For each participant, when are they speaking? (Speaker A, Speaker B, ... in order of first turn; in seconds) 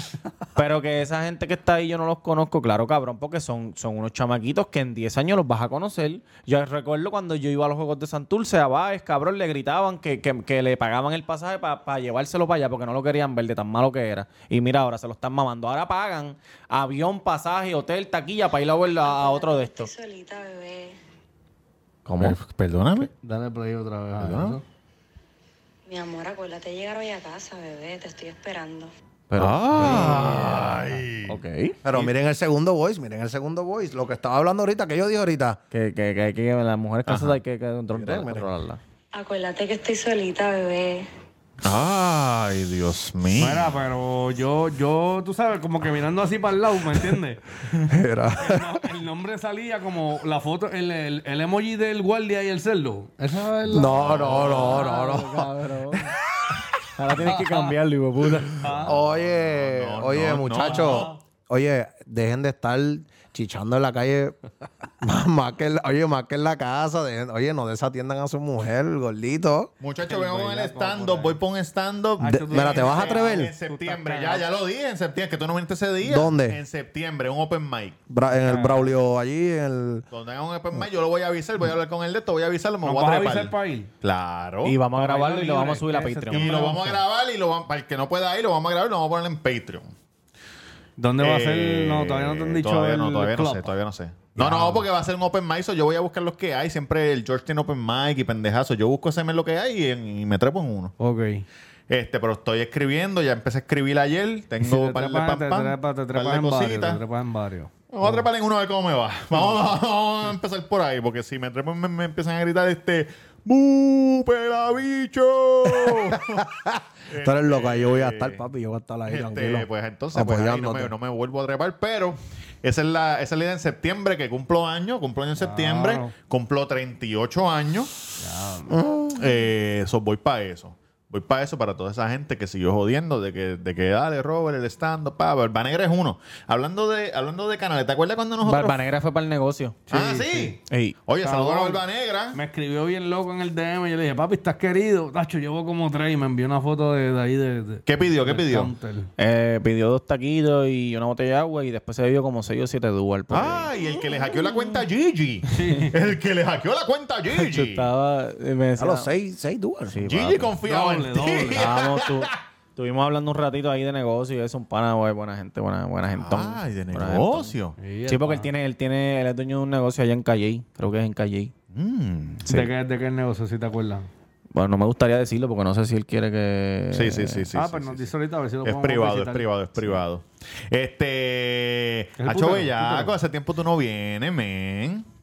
Speaker A: 0.6-19.9, 22.1-22.4, 29.3-32.1, 35.7-38.8, 54.2-56.1, 57.0-58.6, 84.7-86.5, 138.4-139.8, 140.7-140.9, 149.2-153.7, 157.3-159.1, 159.9-160.5, 161.5-167.6, 168.1-171.5, 174.5-177.5
Speaker B: 19.0-21.0, 25.9-28.9, 39.1-41.1
Speaker C: 22.2-23.1, 24.2-24.6, 29.4-31.3, 37.1-37.4, 41.6-43.8, 53.7-54.9, 58.6-61.1, 69.8-78.0, 80.1-84.8, 86.3-89.9, 91.2-100.9, 101.9-107.0, 107.9-116.5, 117.1-118.4, 119.1-127.9, 129.1-138.8, 139.9-142.4, 147.9-148.7, 153.3-157.9, 160.1-162.4, 166.2-167.8, 171.7-172.7, 176.9-178.1, 178.6-185.1
Speaker D: 23.2-24.6, 43.4-47.7, 48.4-54.1, 57.1-57.8, 58.6-59.0, 60.6-61.2, 70.0-71.4, 72.2-74.5, 78.5-78.9, 82.8-83.9, 84.9-87.0, 91.0-93.7, 94.3-94.9, 101.0-101.5, 104.6-108.3, 109.3-109.6, 125.4-126.1, 128.2-128.7, 139.9-140.6, 141.2-141.8, 142.3-149.1, 155.5-156.0, 160.6-161.7, 167.8-168.5, 172.5-174.1, 177.5-179.5, 182.2-183.2
Speaker E: 30.0-30.2, 31.8-35.6, 37.9-38.5, 47.9-48.8, 53.7-56.0, 58.9-64.4, 65.0-69.7, 72.2-73.5, 76.0-76.6, 78.1-80.0, 115.7-120.9, 128.7-129.3, 158.8-160.1